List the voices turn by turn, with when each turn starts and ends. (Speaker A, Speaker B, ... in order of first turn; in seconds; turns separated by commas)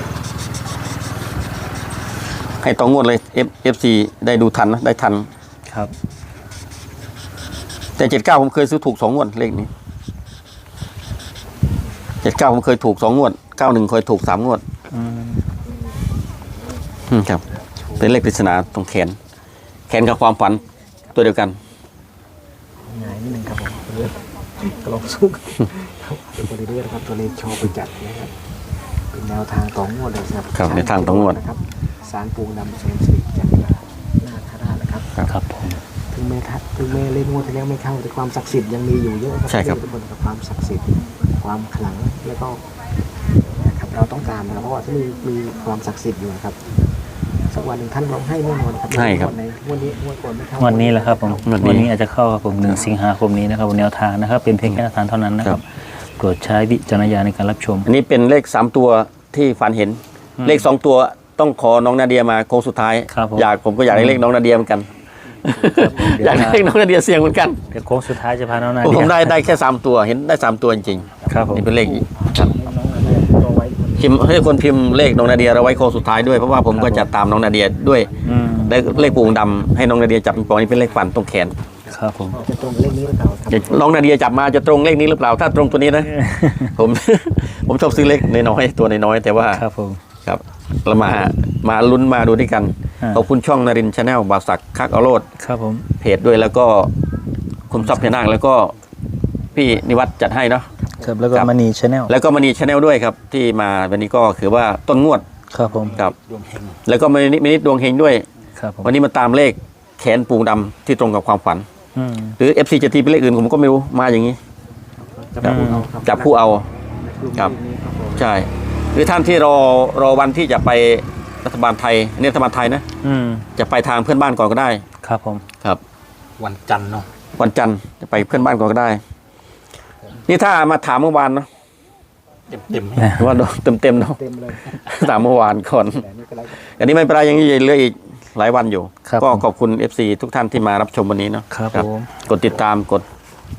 Speaker A: 2.6-5.3, Speaker A: 8.0-9.7, Speaker A: 12.2-14.6, Speaker B: 14.9-15.4, Speaker A: 17.1-17.4, Speaker A: 18.0-19.2, Speaker A: 19.9-20.6, Speaker A: 21.1-21.6, Speaker C: 22.9-28.3, Speaker C: 29.1-35.1, Speaker A: 30.5-31.4, Speaker B: 35.3-35.8, Speaker C: 36.1-42.6, Speaker A: 39.5-39.8, Speaker C: 43.5-46.6, Speaker C: 47.5-51.8, Speaker A: 48.9-49.3, Speaker B: 50.6-55.6, Speaker A: 51.5-51.9, Speaker C: 52.6-53.0, Speaker B: 56.2-57.9, Speaker A: 57.9-64.9, Speaker B: 60.4-60.7, Speaker B: 63.1-64.2, Speaker A: 65.4-67.6, Speaker B: 65.7-66.7, Speaker B: 67.7-69.4, Speaker A: 68.8-72.5, Speaker B: 71.3-71.7, Speaker C: 71.5-74.6, Speaker A: 74.0-81.5, Speaker C: 75.3-76.2, Speaker B: 76.7-77.1, Speaker D: 78.1-82.5, Speaker B: 78.2-79.0, Speaker B: 81.9-82.4, Speaker C: 82.3-84.1, Speaker A: 83.5-89.6, Speaker B: 86.1-86.8, Speaker B: 89.5-90.0, Speaker A: 90.2-95.3, Speaker B: 95.4-95.9, Speaker A: 96.0-96.9, Speaker A: 97.7-98.8, Speaker B: 97.8-98.1, Speaker A: 99.5-100.7, Speaker B: 101.0-102.1, Speaker A: 102.1-105.2, Speaker B: 105.5-106.0, Speaker D: 105.7-106.8, Speaker A: 106.8-108.2, Speaker B: 108.6-108.9, Speaker A: 108.8-111.7, Speaker B: 112.0-112.4, Speaker A: 112.4-114.4, Speaker C: 115.0-116.4, Speaker B: 115.4-115.9, Speaker A: 116.0-116.7, Speaker C: 117.0-118.3, Speaker A: 118.2-122.8, Speaker B: 123.0-123.5, Speaker A: 123.6-124.8, Speaker B: 125.0-125.4, Speaker D: 126.4-127.1, Speaker A: 127.4-129.0, Speaker A: 130.2-131.5, Speaker D: 132.5-133.3, Speaker A: 133.1-134.2, Speaker C: 134.2-135.2, Speaker A: 134.8-136.0, Speaker C: 135.9-136.7, Speaker A: 136.6-143.1, Speaker B: 139.1-139.4, Speaker B: 141.5-142.1